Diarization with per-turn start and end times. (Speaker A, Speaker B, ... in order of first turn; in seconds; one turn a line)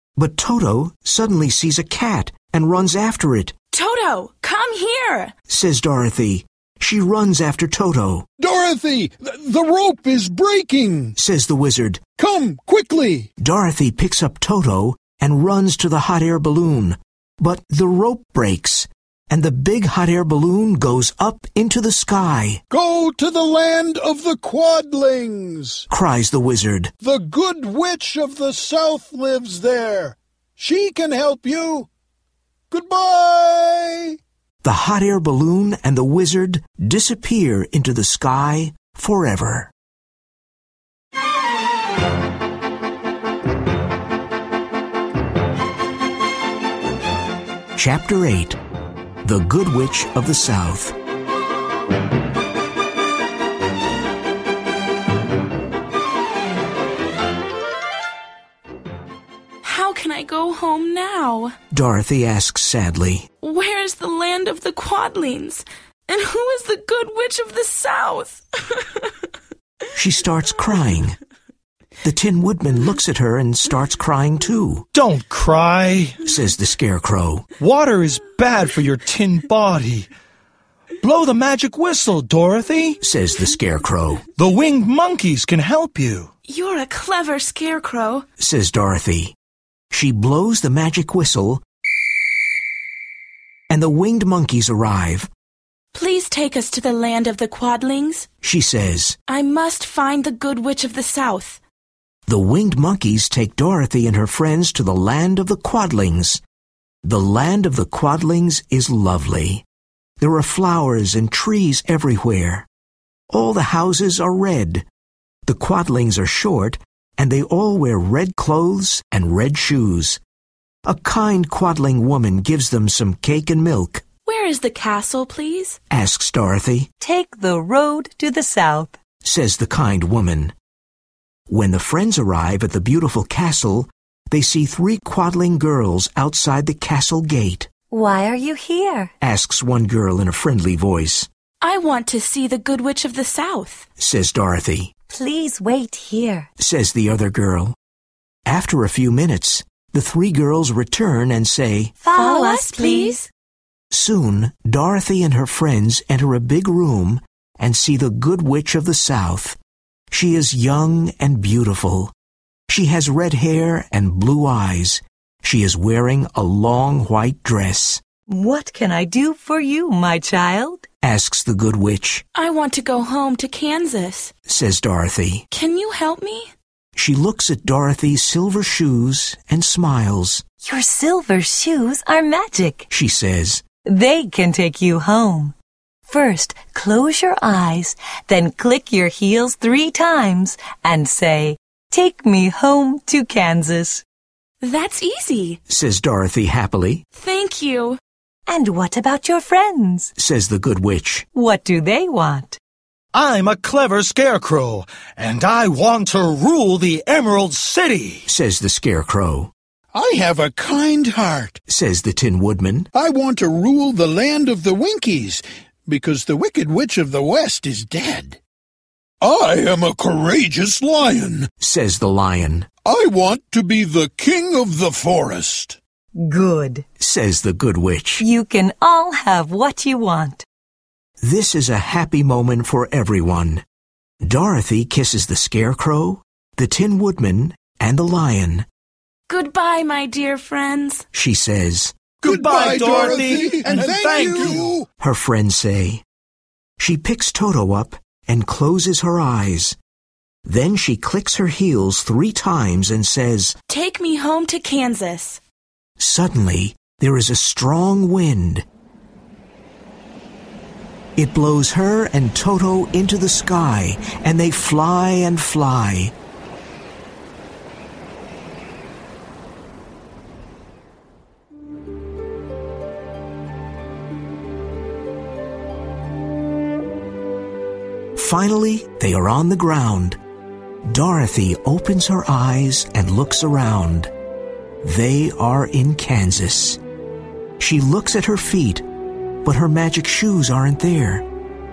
Speaker A: 0.2-3.5
Speaker B: 3.7-5.3
Speaker A: 5.5-8.3
Speaker C: 8.4-11.2
Speaker A: 11.2-12.0
Speaker C: 12.2-13.3
Speaker A: 13.4-22.6
Speaker C: 22.7-25.9
Speaker A: 25.9-26.9
Speaker C: 27.0-31.9
Speaker C: 32.7-34.2
Speaker A: 34.6-39.7
Speaker A: 47.8-48.6
Speaker A: 49.2-51.0
Speaker B: 59.6-61.5
Speaker A: 61.7-63.3
Speaker B: 63.4-69.1
Speaker A: 70.0-71.2
Speaker A: 72.0-74.9
Speaker D: 74.9-76.2
Speaker A: 76.2-77.5
Speaker D: 77.6-80.1
Speaker D: 81.0-83.0
Speaker A: 83.0-84.2
Speaker D: 84.4-86.3
Speaker B: 86.5-88.2
Speaker A: 88.4-89.3
Speaker A: 89.9-91.6
Speaker A: 93.7-95.3
Speaker B: 95.9-98.2
Speaker A: 98.4-99.2
Speaker B: 99.3-101.6
Speaker A: 102.3-106.4
Speaker A: 107.0-109.7
Speaker A: 110.2-112.7
Speaker A: 113.3-114.9
Speaker A: 115.5-120.2
Speaker A: 120.8-124.0
Speaker B: 124.2-125.8
Speaker A: 125.9-126.9
Speaker E: 127.0-129.0
Speaker A: 129.2-130.6
Speaker A: 131.5-137.7
Speaker E: 137.9-139.1
Speaker A: 139.2-141.3
Speaker B: 141.6-143.8
Speaker A: 144.0-144.9
Speaker E: 145.1-146.5
Speaker A: 146.6-147.8
Speaker A: 148.4-151.9
Speaker E: 152.0-153.2
Speaker B: 152.1-153.3
Speaker A: 153.9-159.6
Speaker A: 160.1-162.1
Speaker A: 162.7-168.0
Speaker E: 168.3-170.9
Speaker A: 171.0-172.2
Speaker B: 172.3-174.3
Speaker A: 174.4-175.4
Speaker B: 175.5-176.5
Speaker A: 176.9-180.4
Speaker E: 180.6-182.9
Speaker A: 182.9-183.6
Speaker E: 183.8-185.6
Speaker E: 186.1-194.0
Speaker B: 194.6-195.6
Speaker A: 195.7-197.0
Speaker B: 197.1-198.0
Speaker E: 198.5-200.1
Speaker A: 200.2-201.2
Speaker E: 201.3-202.6
Speaker D: 203.1-208.2
Speaker A: 208.3-209.5
Speaker C: 209.9-211.6
Speaker A: 211.7-212.9
Speaker C: 212.9-218.4
Speaker C: 219.2-221.5
Speaker A: 221.6-222.7
Speaker C: 222.8-225.8
Speaker E: 226.1-226.9
Speaker A: 227.0-228.2
Speaker E: 228.2-230.4
Speaker A: 231.2-233.6
Speaker A: 234.2-238.7
Speaker B: 239.3-241.1
Speaker A: 241.1-241.9
Speaker D: 242.2-244.7
Speaker C: 242.2-244.9
Speaker A: 245.0-246.0
Speaker A: 246.8-249.8
Speaker A: 250.4-253.6
Speaker B: 253.7-255.4
Speaker A: 256.0-258.6
Speaker A: 261.2-266.1
Speaker A: 278.2-280.2
Speaker A: 280.9-284.1
Speaker A: 284.8-286.8
Speaker A: 287.6-288.8
Speaker A: 289.4-291.2